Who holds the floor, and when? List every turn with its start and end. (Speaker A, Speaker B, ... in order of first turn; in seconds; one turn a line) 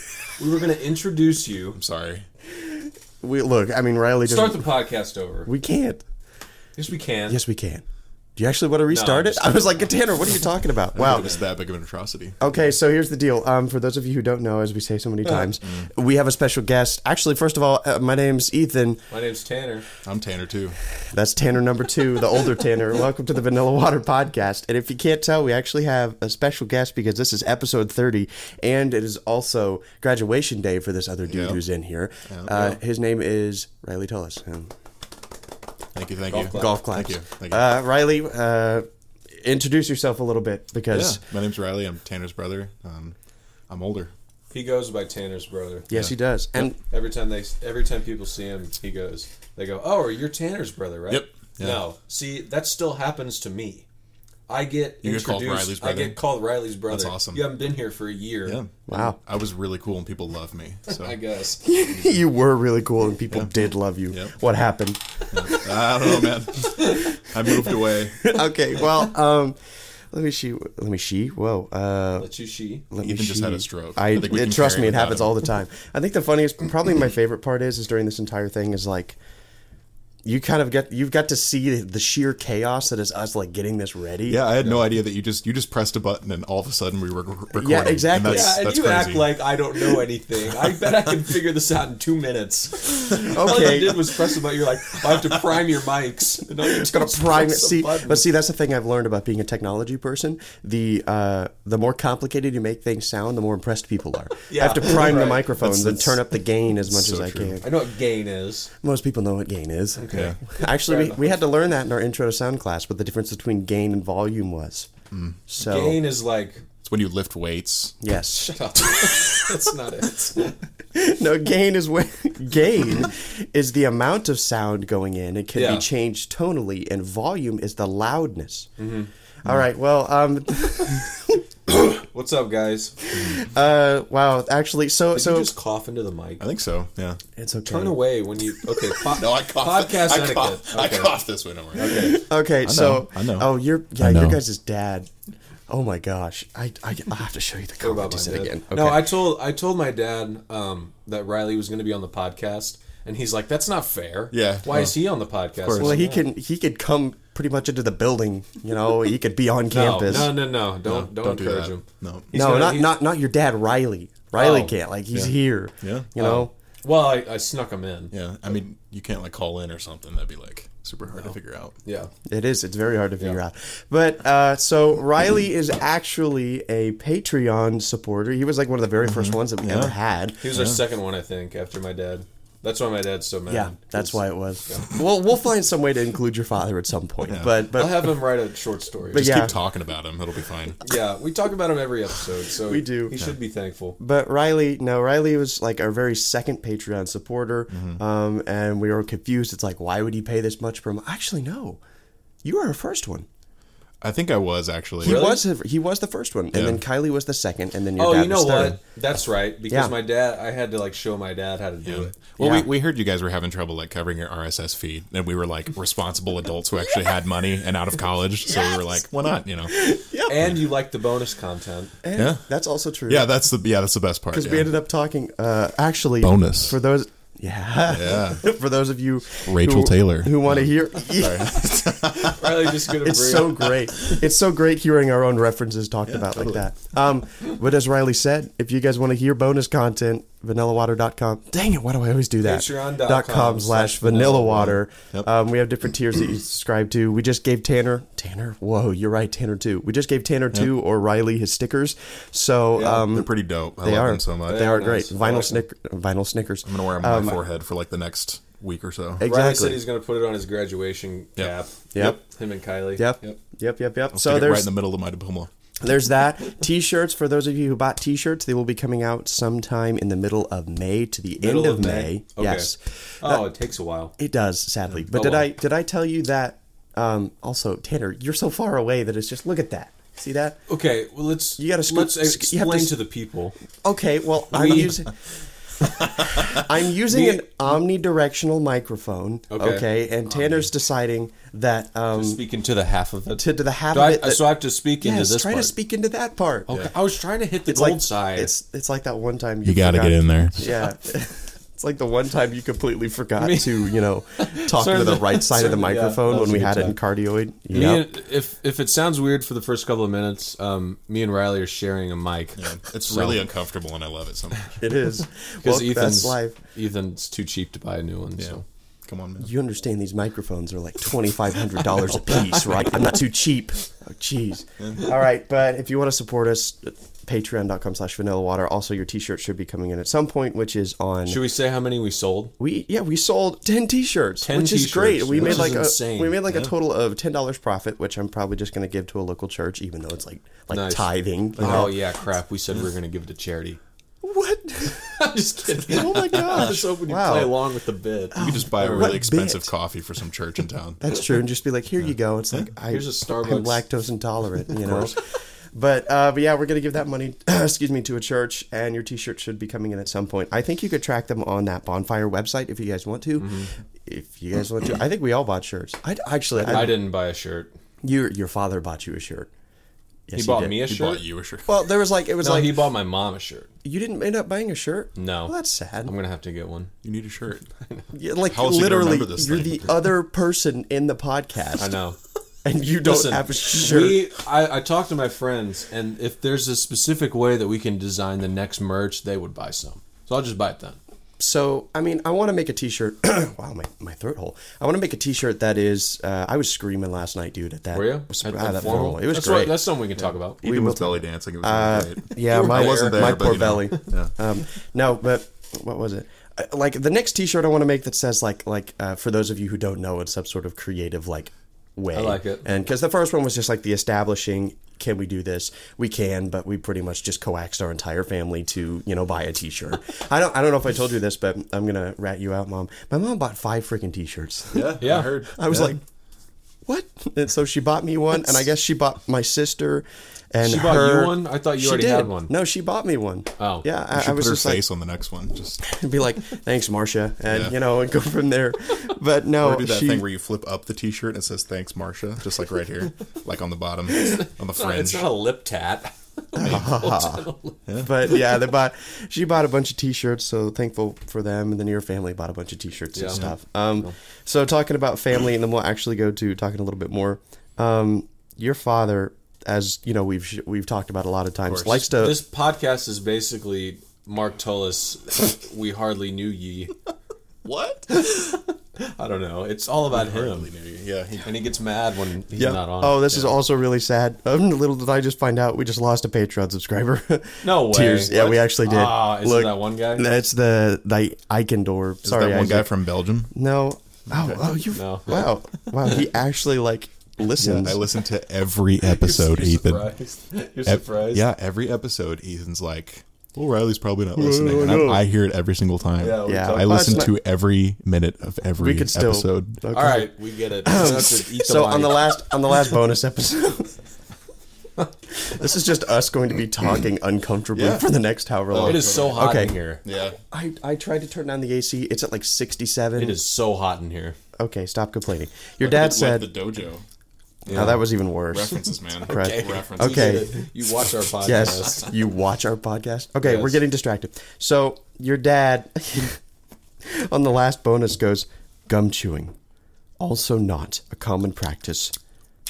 Speaker A: 0.4-1.8
Speaker B: 1.7-2.3
Speaker C: 2.5-4.7
Speaker A: 4.2-5.5
Speaker C: 5.5-6.0
Speaker A: 6.8-7.4
Speaker C: 7.3-7.8
Speaker C: 8.4-11.4
Speaker A: 8.9-9.8
Speaker B: 10.9-12.4
Speaker C: 12.4-19.1
Speaker B: 15.6-15.9
Speaker A: 19.1-19.9
Speaker B: 20.0-20.8
Speaker C: 20.9-34.7
Speaker B: 31.3-31.6
Speaker B: 32.3-32.7
Speaker B: 35.9-37.6
Speaker A: 36.3-36.8
Speaker C: 36.5-41.2
Speaker B: 40.9-43.1
Speaker B: 43.7-44.1
Speaker A: 44.5-45.9
Speaker C: 45.9-46.8
Speaker A: 46.8-53.9
Speaker B: 51.1-51.8
Speaker A: 54.5-58.6
Speaker B: 55.0-56.2
Speaker B: 56.9-57.5
Speaker B: 58.5-61.2
Speaker C: 58.9-59.2
Speaker A: 60.9-61.6
Speaker C: 61.6-66.4
Speaker B: 61.9-62.2
Speaker B: 64.1-64.3
Speaker B: 65.3-68.4
Speaker C: 67.4-69.6
Speaker C: 70.1-72.3
Speaker A: 72.2-72.8
Speaker C: 72.9-79.2
Speaker B: 73.0-75.4
Speaker C: 80.2-84.4
Speaker B: 84.3-89.4
Speaker C: 87.5-88.6
Speaker A: 88.2-98.2
Speaker C: 93.1-94.3
Speaker C: 96.6-107.7
Speaker A: 104.5-105.5
Speaker B: 105.6-107.6
Speaker A: 107.6-108.7
Speaker C: 108.8-114.9
Speaker A: 110.0-111.2
Speaker B: 110.1-110.4
Speaker B: 115.1-115.4
Speaker C: 115.5-116.0
Speaker A: 115.6-116.6
Speaker B: 116.8-118.0
Speaker C: 118.0-118.6
Speaker A: 118.4-120.6
Speaker B: 119.0-119.4
Speaker C: 120.9-128.7
Speaker A: 125.5-125.8
Speaker A: 128.8-129.1
Speaker C: 129.4-131.4
Speaker A: 131.7-133.0
Speaker C: 133.1-135.5
Speaker B: 133.1-133.5
Speaker A: 135.1-136.4
Speaker B: 136.4-137.2
Speaker C: 137.3-138.0
Speaker A: 137.7-141.2
Speaker B: 138.9-144.4
Speaker A: 141.7-142.2
Speaker C: 141.8-145.1
Speaker C: 145.7-149.1
Speaker A: 147.8-156.2
Speaker B: 154.3-155.0
Speaker B: 155.6-156.0
Speaker C: 155.8-160.3
Speaker A: 159.7-163.0
Speaker B: 160.1-162.3
Speaker C: 162.3-166.5
Speaker A: 164.3-164.7
Speaker B: 165.1-166.1
Speaker A: 166.2-168.1
Speaker B: 168.1-171.8
Speaker A: 171.8-172.1
Speaker C: 172.2-180.4
Speaker B: 179.0-179.9
Speaker A: 180.4-184.9
Speaker B: 180.5-180.8
Speaker C: 183.5-188.2
Speaker A: 187.7-189.5
Speaker C: 189.1-189.5
Speaker B: 189.1-190.8
Speaker A: 190.8-194.0
Speaker C: 192.6-193.2
Speaker C: 194.0-201.8
Speaker B: 197.7-198.0
Speaker C: 202.4-203.3
Speaker B: 204.0-205.3
Speaker C: 205.0-208.8
Speaker A: 205.0-205.4
Speaker B: 206.5-206.8
Speaker A: 208.0-212.6
Speaker B: 211.8-219.9
Speaker C: 212.4-212.7
Speaker C: 218.5-219.0
Speaker C: 219.7-220.4
Speaker A: 220.2-221.9
Speaker C: 222.0-223.3
Speaker B: 222.1-222.5
Speaker B: 223.1-224.7
Speaker C: 224.3-257.4
Speaker B: 226.2-226.8
Speaker B: 227.9-228.5
Speaker B: 229.4-232.7
Speaker A: 232.3-233.8
Speaker B: 236.1-236.6
Speaker A: 242.4-244.8
Speaker B: 252.8-254.7
Speaker A: 254.4-255.6
Speaker B: 256.6-259.2
Speaker C: 259.2-259.8
Speaker A: 259.2-263.1
Speaker C: 261.9-262.2
Speaker C: 262.9-264.7
Speaker B: 264.1-265.5
Speaker C: 265.8-273.5
Speaker A: 271.4-274.1
Speaker C: 274.2-280.6
Speaker A: 275.1-275.5
Speaker A: 280.7-283.6
Speaker C: 281.6-283.0
Speaker C: 283.8-285.1
Speaker A: 284.5-285.0
Speaker C: 286.0-292.4
Speaker A: 287.1-287.4
Speaker A: 289.5-289.9
Speaker A: 292.1-295.7
Speaker C: 293.4-296.7
Speaker A: 296.7-298.5
Speaker C: 297.7-308.1
Speaker B: 299.6-300.6
Speaker A: 303.4-307.0
Speaker A: 307.7-313.5
Speaker B: 312.6-314.8
Speaker C: 314.8-316.6
Speaker A: 315.6-318.6
Speaker B: 318.4-319.5
Speaker C: 319.4-331.4
Speaker A: 322.3-322.9
Speaker B: 324.8-325.1
Speaker A: 331.3-332.5
Speaker C: 332.6-342.0
Speaker A: 334.4-336.4
Speaker A: 340.7-343.8
Speaker B: 341.6-341.9
Speaker C: 344.2-347.6
Speaker A: 345.1-348.5
Speaker B: 345.9-346.8
Speaker C: 348.3-349.7
Speaker B: 348.3-351.0
Speaker C: 351.0-355.2
Speaker A: 352.9-353.9
Speaker A: 354.7-355.1
Speaker C: 355.7-367.0
Speaker A: 363.4-363.7
Speaker A: 366.6-367.7
Speaker C: 368.0-369.5
Speaker C: 370.3-370.8
Speaker A: 370.3-371.2
Speaker B: 370.8-371.7
Speaker C: 371.6-372.9
Speaker A: 372.4-373.7
Speaker C: 373.8-376.1
Speaker A: 375.1-376.9
Speaker B: 377.0-377.6
Speaker C: 378.1-381.9
Speaker B: 378.4-380.0
Speaker A: 381.8-382.2
Speaker C: 382.6-384.2
Speaker A: 383.0-391.0
Speaker C: 391.4-399.9
Speaker A: 397.9-400.6
Speaker B: 400.2-404.3
Speaker C: 400.6-426.0
Speaker A: 402.5-404.1
Speaker A: 412.1-412.7
Speaker B: 424.7-425.9
Speaker A: 425.0-425.4
Speaker C: 426.9-434.8
Speaker A: 430.6-432.5
Speaker A: 433.6-433.9
Speaker B: 434.1-435.9
Speaker C: 435.8-440.2
Speaker B: 437.5-437.7
Speaker B: 439.6-445.3
Speaker A: 444.2-447.8
Speaker C: 446.5-447.4
Speaker B: 446.6-447.0
Speaker B: 447.9-448.1
Speaker C: 448.0-462.4
Speaker A: 453.1-453.5
Speaker B: 461.7-462.1
Speaker A: 462.1-466.9
Speaker B: 467.6-468.2
Speaker A: 468.1-470.7
Speaker B: 470.1-471.6
Speaker A: 471.4-473.5
Speaker C: 472.5-482.9
Speaker A: 477.6-480.4
Speaker B: 482.2-483.5
Speaker C: 483.5-488.0
Speaker B: 484.3-484.8
Speaker A: 484.9-485.5
Speaker A: 487.6-488.0
Speaker B: 487.7-490.1
Speaker A: 489.0-491.4
Speaker B: 490.9-499.8
Speaker C: 494.3-495.2
Speaker A: 496.2-497.3
Speaker C: 496.4-497.3
Speaker C: 498.8-500.3
Speaker A: 499.9-502.3
Speaker C: 500.8-503.9
Speaker C: 505.3-509.8
Speaker B: 507.7-508.0
Speaker B: 508.7-510.4
Speaker A: 508.8-510.0
Speaker C: 510.5-513.4
Speaker A: 513.2-514.4
Speaker C: 514.6-516.5
Speaker B: 515.8-517.0
Speaker B: 517.7-520.6
Speaker A: 517.7-518.0
Speaker C: 517.7-520.6
Speaker A: 519.3-522.1
Speaker C: 521.4-526.4
Speaker A: 523.4-523.8
Speaker C: 527.0-529.5
Speaker C: 530.2-532.1